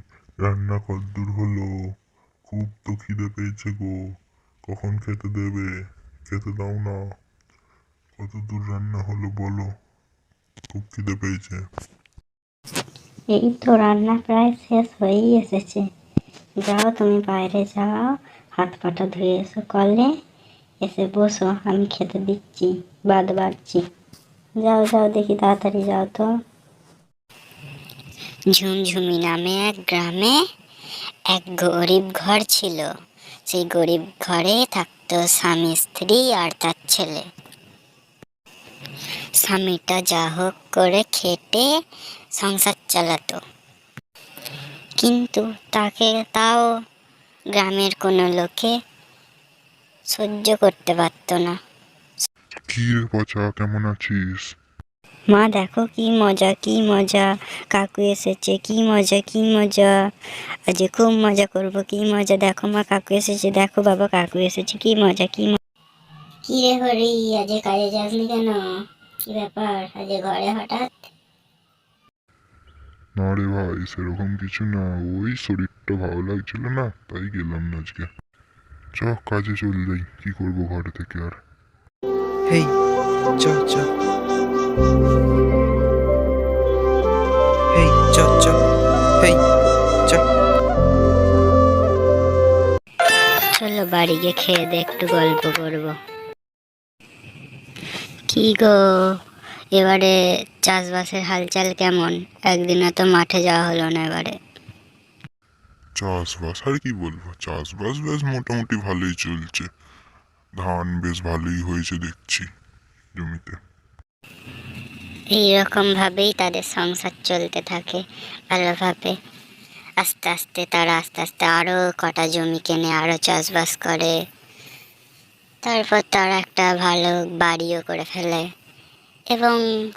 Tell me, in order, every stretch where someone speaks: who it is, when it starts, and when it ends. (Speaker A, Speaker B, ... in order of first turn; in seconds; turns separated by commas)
Speaker A: 0.4-1.7, Speaker A: 2.5-3.9, Speaker A: 4.7-5.7, Speaker A: 6.3-7.0, Speaker A: 8.2-9.7, Speaker A: 10.7-11.6, Speaker B: 13.3-15.8, Speaker B: 16.6-20.1, Speaker B: 20.8-23.8, Speaker B: 24.6-26.3, Speaker B: 28.5-30.4, Speaker B: 31.3-32.9, Speaker B: 33.5-37.2, Speaker B: 39.4-41.7, Speaker B: 42.4-43.4, Speaker B: 45.0-46.7, Speaker B: 47.5-48.7, Speaker B: 50.1-51.6, Speaker A: 52.7-54.5, Speaker B: 55.3-60.0, Speaker B: 60.7-65.6, Speaker B: 66.5-68.7, Speaker B: 69.2-71.1, Speaker A: 73.2-78.1, Speaker A: 79.0-81.4, Speaker C: 82.5-82.8, Speaker C: 83.4-83.9, Speaker C: 87.7-88.6, Speaker C: 89.2-89.4, Speaker B: 93.5-96.0, Speaker B: 98.3-99.1, Speaker B: 99.8-104.4, Speaker A: 106.0-109.7, Speaker A: 110.6-112.4, Speaker A: 113.2-113.6, Speaker B: 115.3-119.1, Speaker B: 120.0-124.2, Speaker B: 125.6-128.5, Speaker B: 129.3-129.6